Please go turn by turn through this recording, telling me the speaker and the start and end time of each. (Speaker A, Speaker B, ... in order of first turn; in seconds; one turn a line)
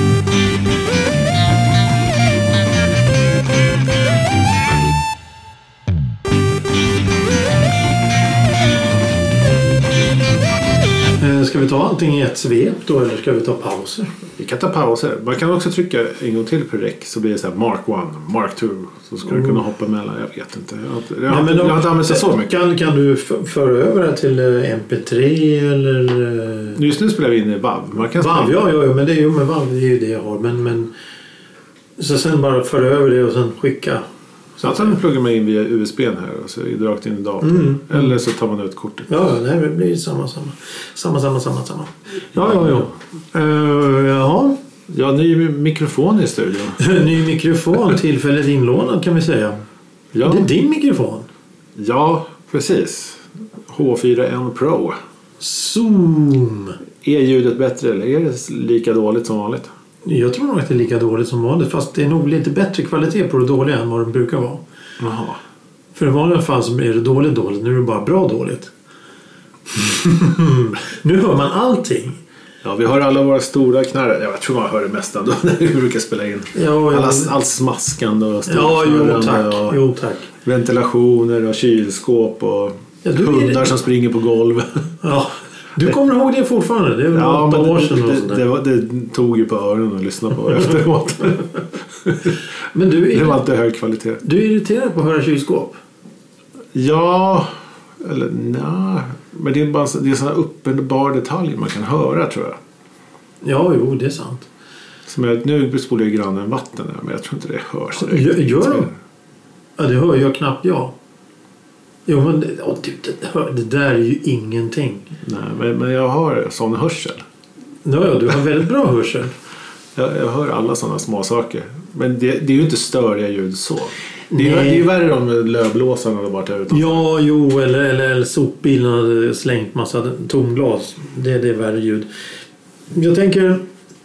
Speaker A: 11.2-14.1
Speaker B: 14.4-22.5
Speaker A: 21.3-26.8
Speaker B: 26.8-28.6
Speaker A: 28.2-30.9
Speaker A: 32.0-34.0
Speaker A: 34.6-35.0
Speaker B: 34.6-39.1
Speaker A: 37.4-38.1
Speaker A: 39.1-44.6
Speaker B: 42.4-42.9
Speaker B: 44.9-46.8
Speaker A: 46.8-49.6
Speaker B: 50.1-50.5
Speaker A: 50.2-51.3
Speaker B: 51.8-55.0
Speaker A: 55.4-56.8
Speaker B: 57.0-59.7
Speaker A: 60.0-64.6
Speaker B: 65.0-65.4
Speaker A: 66.0-68.7
Speaker A: 69.7-72.2
Speaker B: 72.6-79.8
Speaker A: 76.5-77.3
Speaker A: 78.5-80.3
Speaker B: 80.4-84.9
Speaker A: 83.0-83.7
Speaker A: 85.0-88.4
Speaker B: 87.1-92.3
Speaker A: 92.7-93.4
Speaker B: 93.1-94.2
Speaker A: 94.2-95.8
Speaker B: 96.7-102.6
Speaker A: 103.4-104.5
Speaker B: 105.1-109.0
Speaker A: 108.0-108.9
Speaker A: 109.8-110.9
Speaker A: 112.1-115.1
Speaker B: 115.2-117.3
Speaker A: 117.8-119.3
Speaker B: 120.0-127.0
Speaker A: 124.3-124.9
Speaker A: 126.7-132.1
Speaker A: 132.9-133.6